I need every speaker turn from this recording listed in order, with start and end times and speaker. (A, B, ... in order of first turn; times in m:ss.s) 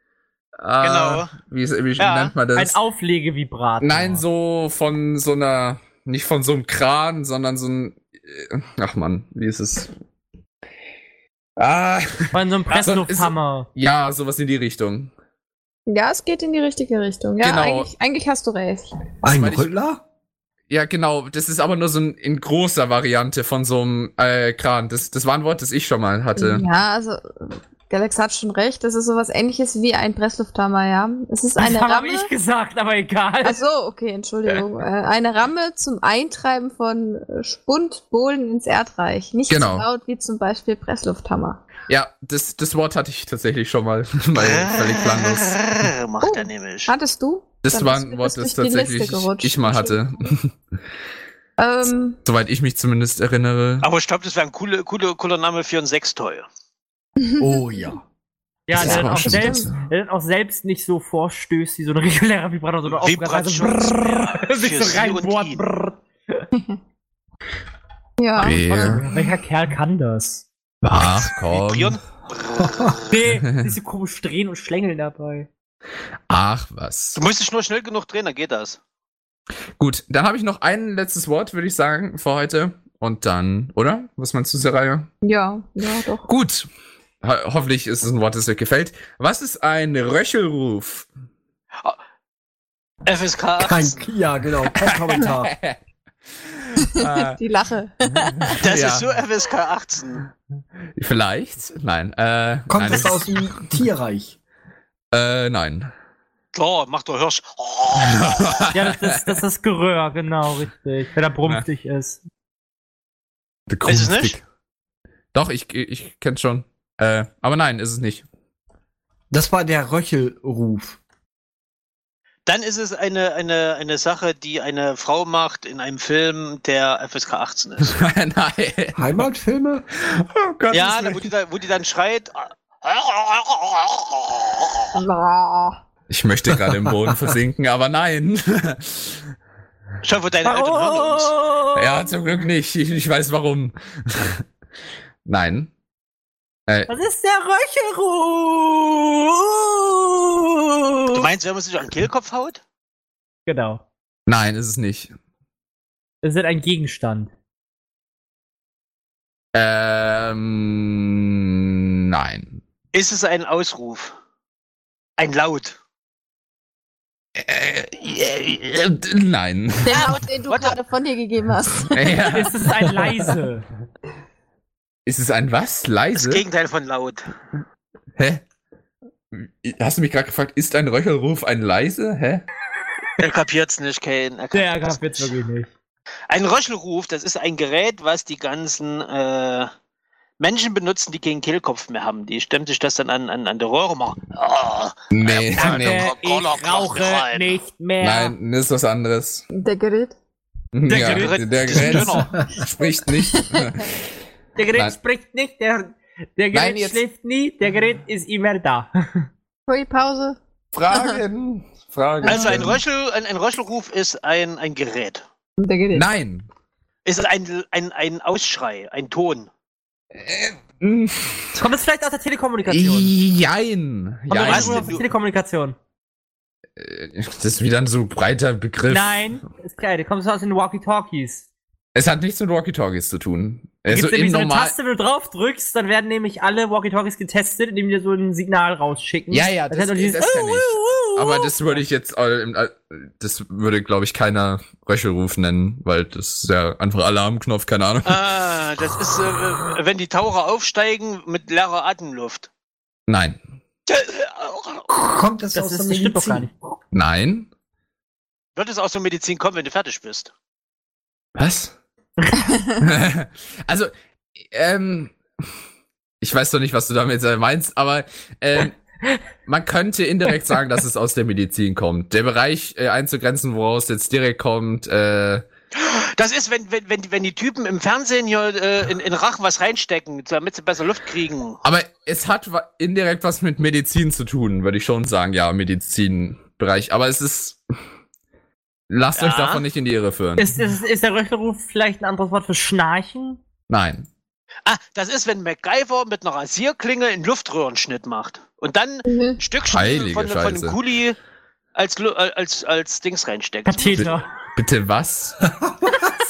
0:00.6-0:02.8 A
0:00.8-0:01.3 B
0:02.0-0:02.3 B
0:02.6-0:04.2 C
0:03.8-0:09.9 A
0:11.6-0:15.1 A
0:12.3-0:13.7 C
0:15.9-0:18.9 D
0:17.4-0:17.9 A
0:19.2-0:20.0 E
0:19.2-0:19.8 A
0:20.7-0:26.6 A
0:26.4-0:32.3 D
0:31.6-0:33.6 C
0:33.4-0:41.6 D
0:39.5-0:39.9 A
0:41.9-0:45.6 A
0:44.4-0:46.9 B
0:46.2-0:50.0 D
0:47.6-0:50.6 A
0:51.6-0:52.2 D
0:52.2-0:53.9 A
0:53.8-0:56.5 B
0:57.2-0:57.5 D
0:57.4-0:58.0 E
0:58.7-1:06.5 C
0:58.8-0:59.8 A
0:58.8-0:59.7 D
1:02.9-1:05.6 B
1:08.2-1:09.2 D
1:08.4-1:09.1 A
1:08.7-1:10.5 C
1:10.8-1:12.0 A
1:11.0-1:13.2 B
1:12.6-1:13.0 E
1:13.1-1:15.5 C
1:16.3-1:17.2 A
1:17.2-1:18.8 B
1:19.8-1:25.1 A
1:25.2-1:26.3 D
1:26.3-1:26.7 A
1:27.2-1:31.1 A
1:33.1-1:34.0 B
1:33.6-1:35.5 E
1:34.8-1:35.8 A
1:36.3-1:37.4 A
1:37.0-1:38.6 D
1:38.2-1:39.1 A
1:38.6-1:40.3 B
1:41.0-1:43.6 A
1:42.7-1:44.4 E
1:45.1-1:45.9 A
1:46.5-1:48.7 B
1:48.0-1:49.1 A
1:48.7-1:52.2 C
1:53.7-1:54.4 A
1:53.9-1:54.4 B
1:55.3-1:58.2 A
1:59.3-2:01.0 E
2:02.5-2:08.0 B
2:07.8-2:09.3 A
2:09.0-2:09.8 E
2:10.0-2:11.3 A
2:10.7-2:14.8 B
2:15.0-2:15.8 D
2:16.1-2:19.2 A
2:20.0-2:21.3 B
2:20.4-2:22.1 C
2:21.8-2:24.4 A
2:25.2-2:25.7 A
2:26.9-2:31.3 C
2:31.1-2:32.6 B
2:33.5-2:33.8 C
2:34.3-2:35.1 A
2:36.2-2:37.3 C
2:39.5-2:42.6 A
2:42.9-2:44.2 B
2:45.2-2:45.8 B
2:47.4-2:50.2 A
2:49.8-2:52.3 D
2:49.9-2:50.8 B
2:51.8-2:52.6 A
2:52.3-2:53.7 C
2:55.1-2:56.4 A
2:56.2-2:57.3 B
2:58.2-2:58.4 A
2:59.3-3:02.5 A
3:03.2-3:05.3 B
3:04.5-3:05.7 C
3:06.3-3:09.7 B
3:10.4-3:17.6 B
3:15.1-3:16.1 A
3:15.5-3:18.4 C
3:18.0-3:19.4 A
3:19.5-3:20.2 D
3:20.7-3:24.0 A
3:20.9-3:22.1 C
3:20.9-3:22.3 B
3:22.1-3:22.5 E
3:23.4-3:23.6 D
3:24.6-3:29.3 C
3:26.5-3:27.0 A
3:29.7-3:30.4 D
3:30.7-3:32.8 A
3:30.9-3:31.2 D
3:32.2-3:32.6 D
3:32.2-3:35.2 B
3:35.6-3:36.1 D
3:35.9-3:36.5 A
3:37.0-3:39.5 B
3:40.1-3:41.6 A
3:41.6-3:43.1 C
3:42.7-3:45.0 A
3:44.3-3:45.8 C
3:44.4-3:45.1 B
3:46.8-3:49.3 A
3:48.9-3:51.4 C
3:52.0-3:54.7 A
3:53.9-4:01.8 C
3:59.3-4:08.2 A
4:08.0-4:12.5 B
4:13.1-4:13.4 A
4:13.9-4:14.8 B
4:14.9-4:16.5 E
4:15.5-4:16.5 C
4:16.9-4:17.5 A
4:18.6-4:20.3 B
4:21.4-4:21.7 A
4:22.2-4:22.4 C
4:22.8-4:23.9 A
4:24.5-4:25.2 A
4:26.2-4:28.8 A
4:29.5-4:35.5 A
4:35.8-4:41.6 B
4:41.6-4:47.6 A
4:48.9-4:50.5 A
4:49.2-4:49.6 B
4:50.4-4:53.4 C
4:53.7-4:54.1 A
4:54.6-5:01.2 B
4:59.1-4:59.4 D
4:59.7-5:00.8 A
5:01.8-5:04.3 B
5:03.7-5:04.3 C
5:04.0-5:05.4 A
5:05.5-5:05.9 E